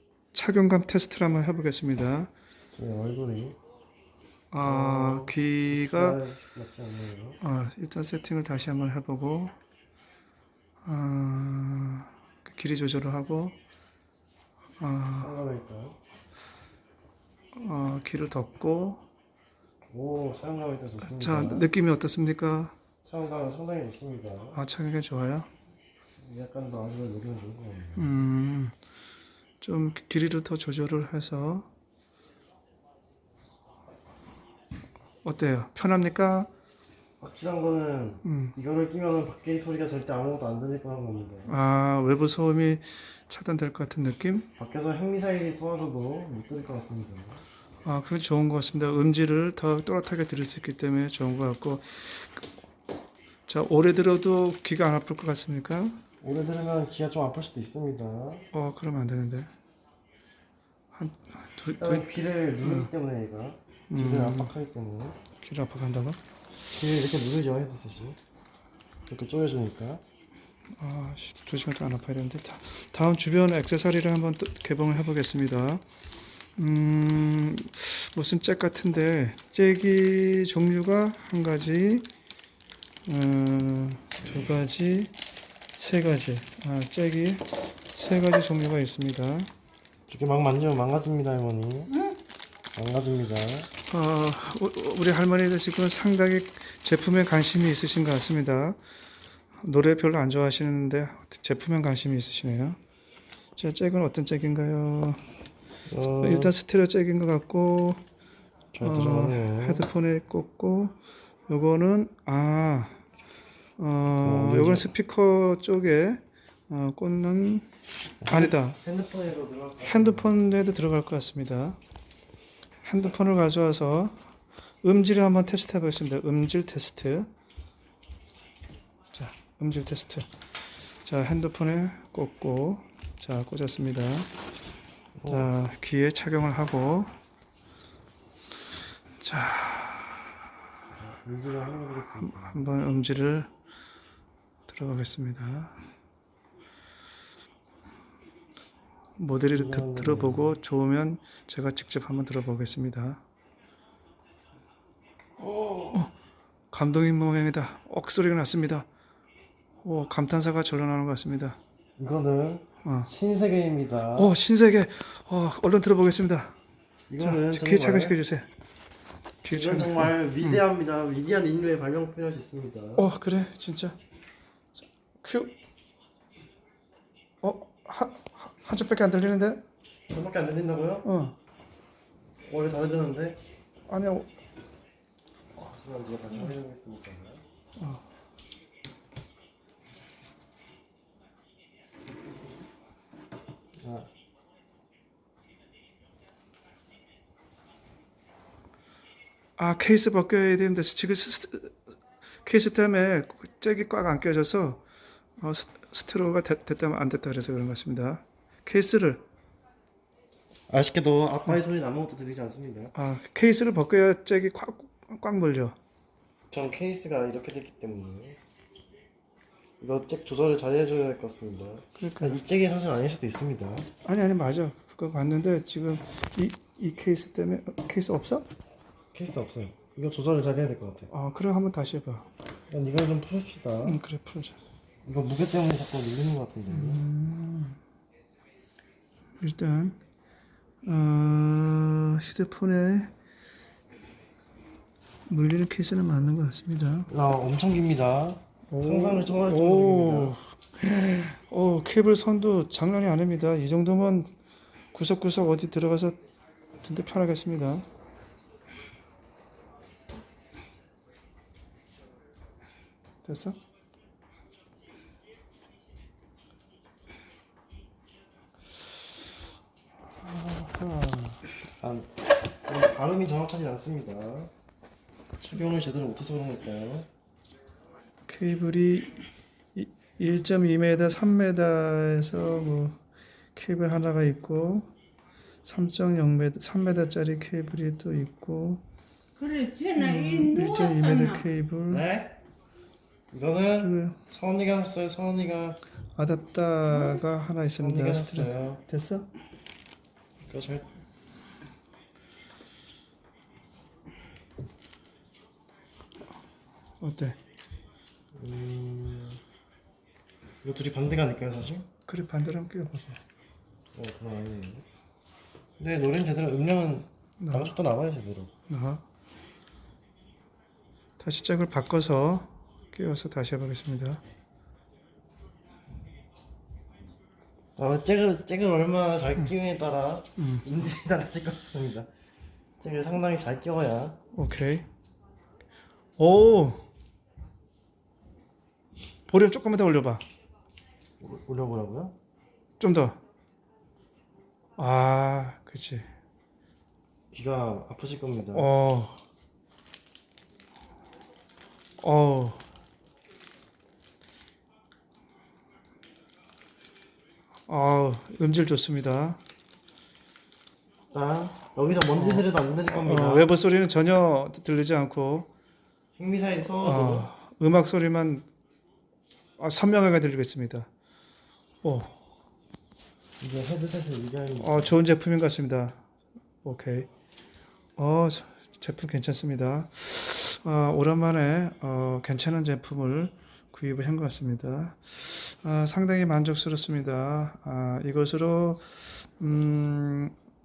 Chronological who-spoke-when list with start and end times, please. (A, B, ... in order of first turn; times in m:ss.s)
0:00.3-0:02.3 A
0:02.7-0:03.6 B
0:04.5-0:06.2 A
0:04.6-0:07.4 B
0:07.4-0:09.5 A
0:10.8-0:13.6 A
0:14.8-0:15.4 A
0:15.2-0:16.0 B
0:17.6-0:19.0 A
0:19.9-0:21.7 B
0:21.0-0:22.8 A
0:23.0-0:24.6 B
0:24.6-0:25.5 A
0:26.2-0:28.1 B
0:28.0-0:28.8 A
0:29.6-0:31.7 A
0:35.2-0:36.5 A
0:37.2-0:41.6 B
0:38.2-0:38.6 A
0:41.5-0:44.5 A
0:44.6-0:47.4 B
0:47.8-0:52.5 A
0:53.5-0:56.0 A
0:56.2-0:58.4 B
0:58.5-0:59.5 A
1:00.9-1:02.1 A
1:01.8-1:05.2 B
1:02.6-1:02.9 A
1:03.9-1:04.5 A
1:05.4-1:06.2 A
1:06.7-1:08.2 B
1:09.1-1:10.0 B
1:10.8-1:15.8 A
1:16.6-1:22.1 A
1:23.1-1:25.1 A
1:25.8-1:29.5 A
1:30.1-1:31.9 B
1:32.7-1:33.7 B
1:33.9-1:38.8 A
1:39.6-1:42.8 A
1:43.6-1:45.2 A
1:45.9-1:46.5 B
1:46.2-1:48.0 A
1:48.7-1:49.9 B
1:48.8-1:51.0 A
1:51.5-1:53.0 A
1:53.8-1:57.7 A
1:54.2-1:54.9 B
1:58.2-2:00.4 B
1:58.2-1:58.8 A
1:59.8-2:01.8 A
2:02.8-2:04.2 A
2:04.8-2:07.3 A
2:09.1-2:10.3 A
2:11.0-2:14.3 A
2:15.2-2:15.5 B
2:15.3-2:17.1 A
2:19.2-2:20.3 A
2:21.0-2:22.7 B
2:22.2-2:23.5 A
2:24.7-2:25.8 A
2:29.2-2:33.2 A
2:29.5-2:30.6 B
2:35.4-2:36.0 B
2:36.7-2:38.9 A
2:39.8-2:41.6 A
2:42.0-2:44.3 B
2:42.8-2:43.1 A
2:44.2-2:46.6 A
2:47.1-2:48.2 B
2:47.2-2:48.5 A
2:49.4-2:50.6 A
2:49.5-2:53.1 B
2:53.0-2:54.0 A
2:54.8-2:55.5 A
2:57.4-2:59.6 A
3:00.1-3:01.1 B
3:01.0-3:01.4 A
3:02.5-3:03.4 B
3:03.9-3:04.3 A
3:05.6-3:07.4 B
3:07.8-3:08.0 A
3:13.8-3:14.1 B
3:19.6-3:21.8 A
3:22.4-3:24.8 A
3:25.4-3:29.2 A
3:30.7-3:33.0 B
3:33.0-3:35.8 A
3:36.5-3:38.4 B
3:39.8-3:43.9 B
3:42.0-3:42.4 A
3:44.0-3:48.5 A
3:49.1-3:51.1 B
3:51.1-3:52.3 A
3:52.7-3:54.0 B
3:53.8-3:54.6 A
3:55.0-3:57.0 B
3:56.7-3:57.8 A
3:59.4-4:00.0 A
4:00.8-4:03.1 A
4:05.3-4:07.1 A
4:07.1-4:10.4 B
4:08.7-4:14.3 A
4:14.9-4:16.2 A
4:16.8-4:17.9 A
4:23.2-4:23.6 A
4:30.2-4:31.4 A
4:31.7-4:32.1 B
4:32.7-4:34.5 B
4:35.4-4:37.1 B
4:38.3-4:39.2 A
4:39.8-4:43.0 A
4:43.6-4:44.9 A
4:45.6-4:48.8 A
4:49.4-4:51.4 C
4:50.0-4:52.1 A
4:51.9-4:52.4 B
4:53.3-4:55.8 B
4:53.8-4:54.2 A
4:56.1-4:59.3 A
4:57.6-4:58.8 B
5:00.5-5:00.9 B
5:07.0-5:07.4 A
5:08.4-5:09.4 B
5:10.6-5:11.9 B
5:12.1-5:13.2 A
5:14.0-5:14.9 B
5:15.8-5:18.5 B
5:17.4-5:17.7 A
5:18.7-5:19.0 A
5:21.2-5:24.2 A
5:27.8-5:32.1 B
5:30.4-5:30.6 A
5:32.8-5:34.2 B
5:34.3-5:34.9 A
5:36.2-5:36.8 A
5:39.3-5:40.2 A
5:41.2-5:42.2 B
5:42.8-5:43.2 A
5:44.8-5:46.1 A
5:47.3-5:48.7 B
5:48.5-5:49.2 A
5:52.0-5:52.6 A
5:57.7-5:59.4 A
6:01.1-6:03.5 B
6:02.1-6:05.5 A
6:06.2-6:07.3 B
6:06.8-6:08.5 A
6:09.6-6:10.9 A
6:11.8-6:12.2 A
6:13.4-6:15.0 B
6:14.6-6:16.0 A
6:16.6-6:17.1 A
6:18.0-6:30.3 A